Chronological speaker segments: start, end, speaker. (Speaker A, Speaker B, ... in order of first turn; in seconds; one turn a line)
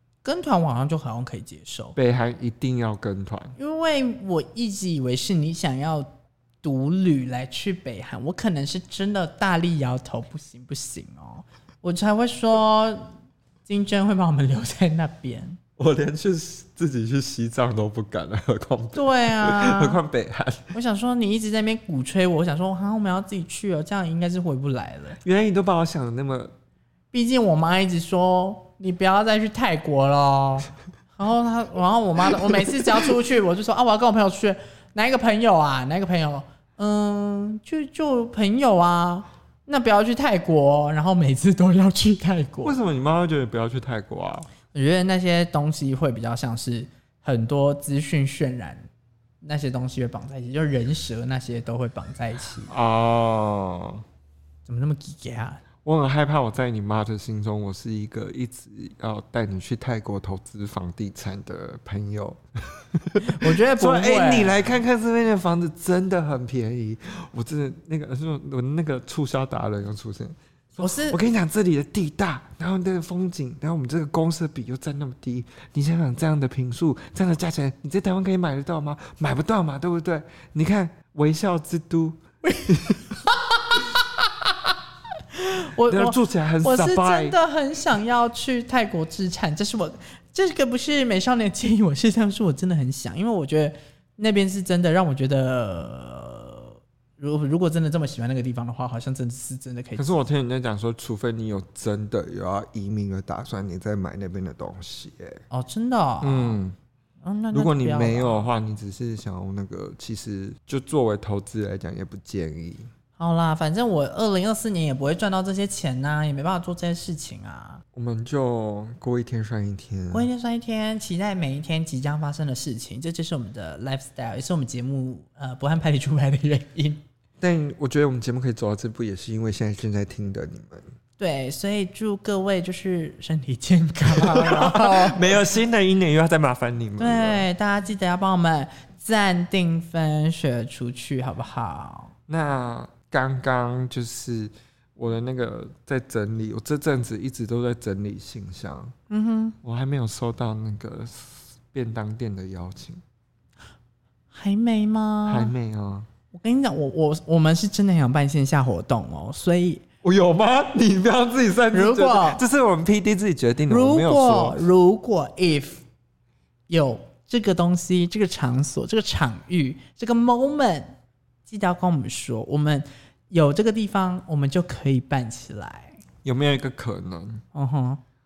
Speaker A: 0.2-1.9
Speaker B: 2.0-3.5
Speaker A: 3.6-6.1
Speaker A: 6.6-13.1
Speaker A: 13.7-15.6
Speaker B: 15.8-20.7
Speaker A: 18.9-20.0
Speaker A: 20.7-25.2
Speaker B: 25.2-26.5
Speaker A: 27.1-42.8
Speaker B: 42.6-44.5
Speaker A: 44.7-48.9
Speaker A: 49.4-52.7
Speaker B: 52.7-54.0
Speaker A: 54.7-55.6
Speaker B: 55.8-83.0
Speaker A: 63.3-64.6
Speaker A: 70.8-71.2
Speaker A: 82.5-84.7
Speaker A: 85.3-100.1
Speaker B: 85.9-87.4
Speaker B: 100.0-105.4
Speaker A: 105.5-106.6
Speaker B: 106.2-106.8
Speaker A: 107.2-108.5
Speaker B: 107.5-112.9
Speaker A: 113.2-117.8
Speaker B: 117.9-120.3
Speaker A: 120.1-127.0
Speaker B: 127.4-130.9
Speaker A: 131.2-135.4
Speaker B: 134.1-137.4
Speaker A: 137.0-142.1
Speaker B: 142.3-148.9
Speaker A: 149.1-149.6
Speaker B: 149.6-153.0
Speaker A: 154.3-155.5
Speaker B: 155.3-156.1
Speaker A: 156.3-159.8
Speaker B: 160.0-164.6
Speaker A: 161.7-162.4
Speaker A: 163.7-165.8
Speaker A: 166.7-171.0
Speaker A: 171.5-176.0
Speaker B: 176.2-177.4
Speaker A: 177.5-178.0